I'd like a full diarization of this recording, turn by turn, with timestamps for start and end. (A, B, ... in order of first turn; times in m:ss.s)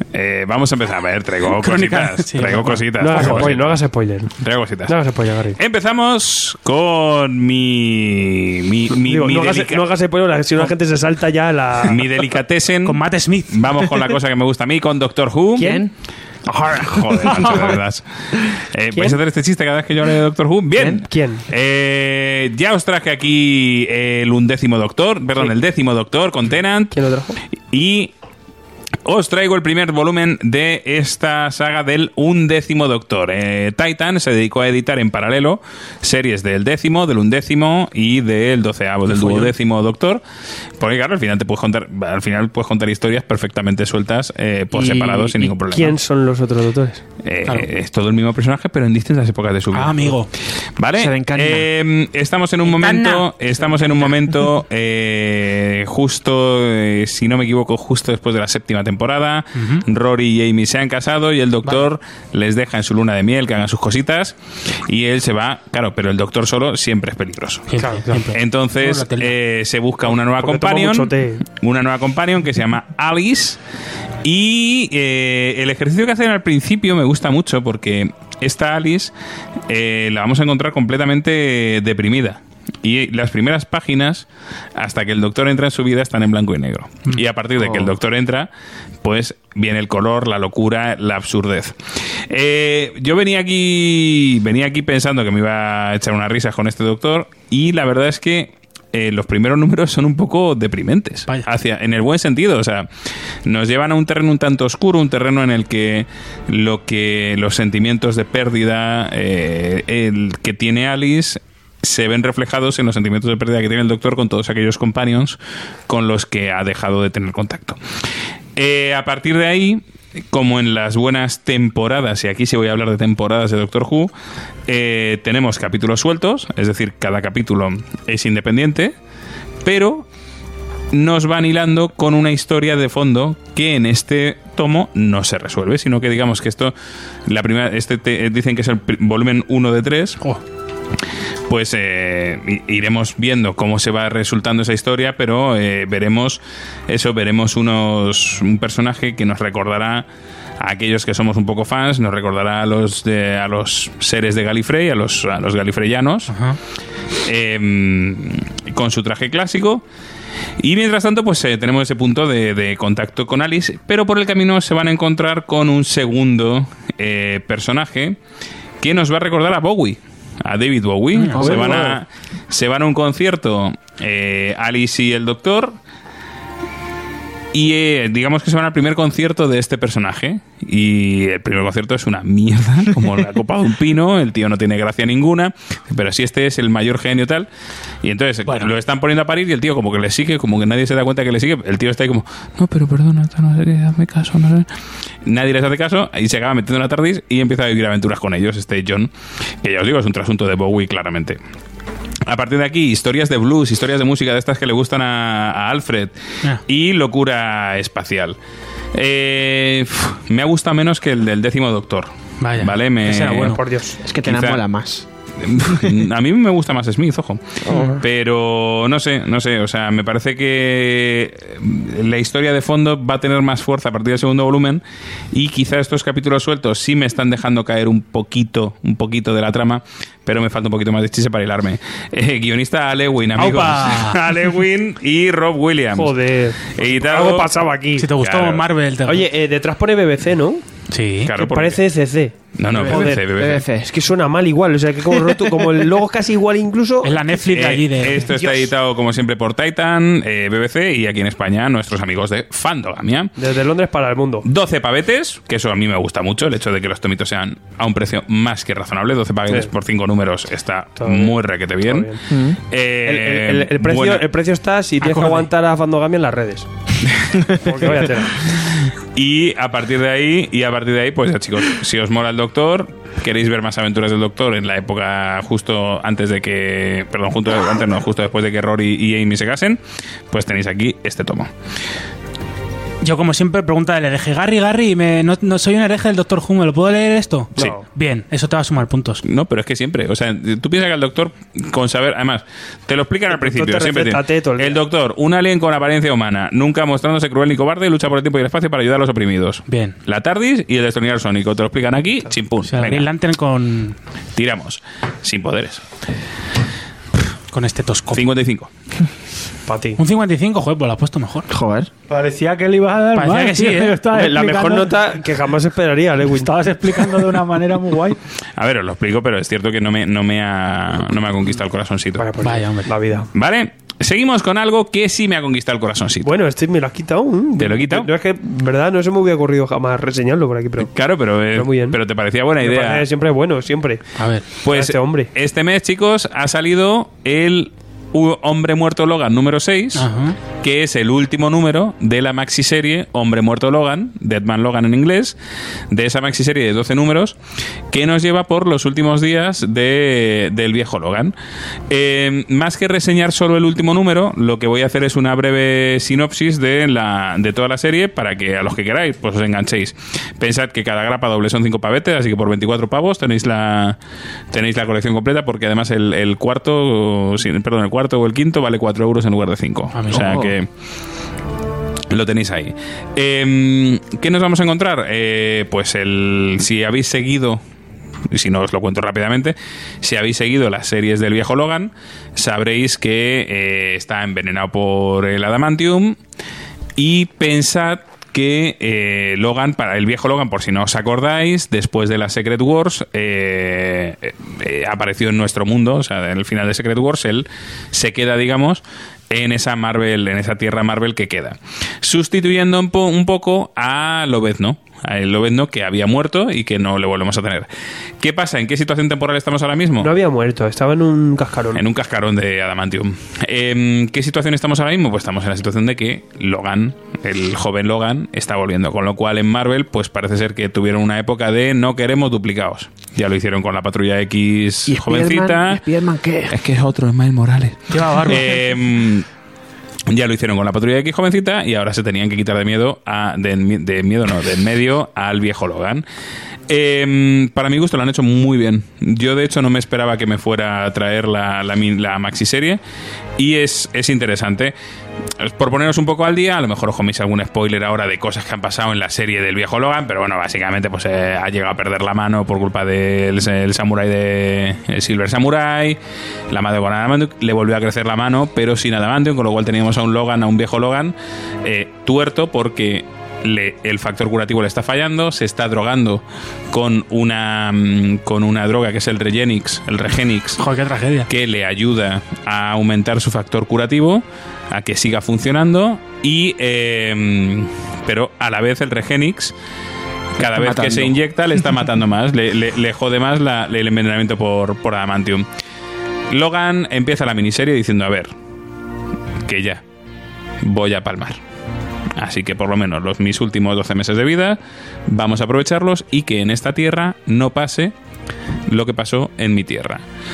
0:00.1-0:03.7 A
0:01.5-0:03.5 B
0:03.0-0:04.3 C
0:04.4-0:05.0 A
0:04.9-0:05.6 C
0:05.6-0:09.8 A
0:09.0-0:12.2 C
0:11.8-0:15.8 A
0:12.8-0:13.7 B
0:15.6-0:15.9 C
0:15.6-0:15.9 D
0:16.5-0:17.8 D
0:16.7-0:27.0 A
0:18.9-0:19.2 C
0:20.8-0:21.0 D
0:21.0-0:21.5 C
0:26.9-0:27.4 C
0:27.7-0:28.1 A
0:29.0-0:40.2 A
0:40.8-0:46.0 A
0:44.7-0:45.5 D
0:45.6-0:47.0 C
0:47.2-0:50.2 A
0:49.7-0:50.3 B
0:50.8-1:13.6 A
0:51.0-0:51.7 D
0:52.7-0:54.1 B
0:59.6-0:59.8 B
1:07.7-1:09.3 B
1:10.1-1:11.4 C
1:14.2-1:19.1 A
1:19.7-1:28.5 A
1:27.6-1:27.9 D
1:29.0-1:31.8 A
1:32.3-1:42.9 A
1:43.4-1:57.8 A
1:58.6-2:04.1 A
2:04.7-2:09.0 A
2:09.6-2:10.1 A
2:10.9-2:16.7 A
2:17.3-2:20.2 A
2:21.5-2:30.1 A
2:30.6-2:36.3 A
2:36.3-2:36.6 B
2:37.2-2:39.8 A
2:40.6-2:48.2 A
2:48.8-2:55.8 A
2:51.2-2:51.5 B
2:51.4-2:52.0 D
2:51.4-2:52.0 C
2:57.5-3:07.5 A
3:08.0-3:14.7 A
3:15.2-3:19.1 A
3:19.6-3:21.4 A
3:22.3-3:26.1 A
3:26.7-3:28.4 A
3:28.9-3:33.6 A
3:32.4-3:33.6 B
3:33.3-3:34.0 C
3:34.0-3:35.0 D
3:34.2-3:34.6 A
3:35.4-3:44.8 A
3:37.7-3:38.0 D
3:37.7-3:38.0 C
3:45.3-3:56.2 A
3:53.4-3:54.2 B
3:56.0-3:58.1 C
3:56.7-3:57.5 A
3:58.0-3:59.2 B
3:58.2-3:58.6 A
3:59.1-4:00.6 C
4:00.9-4:01.3 B
4:01.3-4:01.8 A
4:01.3-4:07.3 C
4:02.6-4:03.7 A
4:02.7-4:03.9 D
4:07.0-4:08.3 B
4:07.5-4:13.3 A
4:08.2-4:08.7 C
4:13.4-4:14.5 C
4:14.4-4:24.2 A
4:21.0-4:22.2 C
4:22.3-4:22.6 D
4:23.0-4:26.7 C
4:25.0-4:25.5 B
4:27.5-4:28.4 C
4:28.0-4:39.8 A
4:40.3-4:41.5 A
4:43.0-4:49.2 B
4:47.6-4:47.8 C
4:49.2-5:03.1 A
4:53.3-4:54.8 C
4:59.7-5:00.0 B
5:02.7-5:04.0 B
5:04.4-5:05.8 A
5:07.5-5:08.3 B
5:08.1-5:08.7 A
5:09.7-5:10.0 C
5:10.0-5:11.5 B
5:11.5-5:11.9 D
5:12.1-5:15.0 E
5:13.1-5:14.0 B
5:14.1-5:16.5 C
5:16.3-5:18.2 E
5:18.6-5:22.3 A
5:22.2-5:23.3 C
5:22.4-5:22.9 B
5:23.3-5:26.3 A
5:26.2-5:30.9 C
5:27.6-5:28.1 A
5:30.8-5:33.0 A
5:31.5-5:32.0 C
5:32.6-5:35.3 C
5:34.2-5:34.5 B
5:34.6-5:40.1 A
5:39.9-5:40.4 B
5:40.6-5:45.4 A
5:45.9-5:47.4 A
5:47.9-5:51.3 A
5:51.9-6:04.0 A
6:04.5-6:10.7 A
6:09.9-6:10.3 B
6:10.1-6:10.6 D
6:12.1-6:17.6 A
6:18.3-6:26.2 A
6:27.0-6:47.7 A
6:48.2-6:50.1 A
6:50.0-6:51.8 C
6:51.8-7:05.8 A
7:04.9-7:06.6 D
7:06.5-7:09.3 A
7:07.9-7:08.6 B
7:10.1-7:16.0 A
7:16.7-7:22.8 A
7:23.4-7:24.7 A
7:25.4-7:36.0 A
7:36.5-7:50.6 A
7:50.6-7:51.3 B
7:51.3-7:59.5 A
8:00.4-8:05.5 A
8:00.5-8:01.2 D
8:06.3-8:08.3 A
8:09.5-8:09.8 A
8:10.6-8:11.4 A
8:12.2-8:17.9 A
8:18.7-8:20.0 A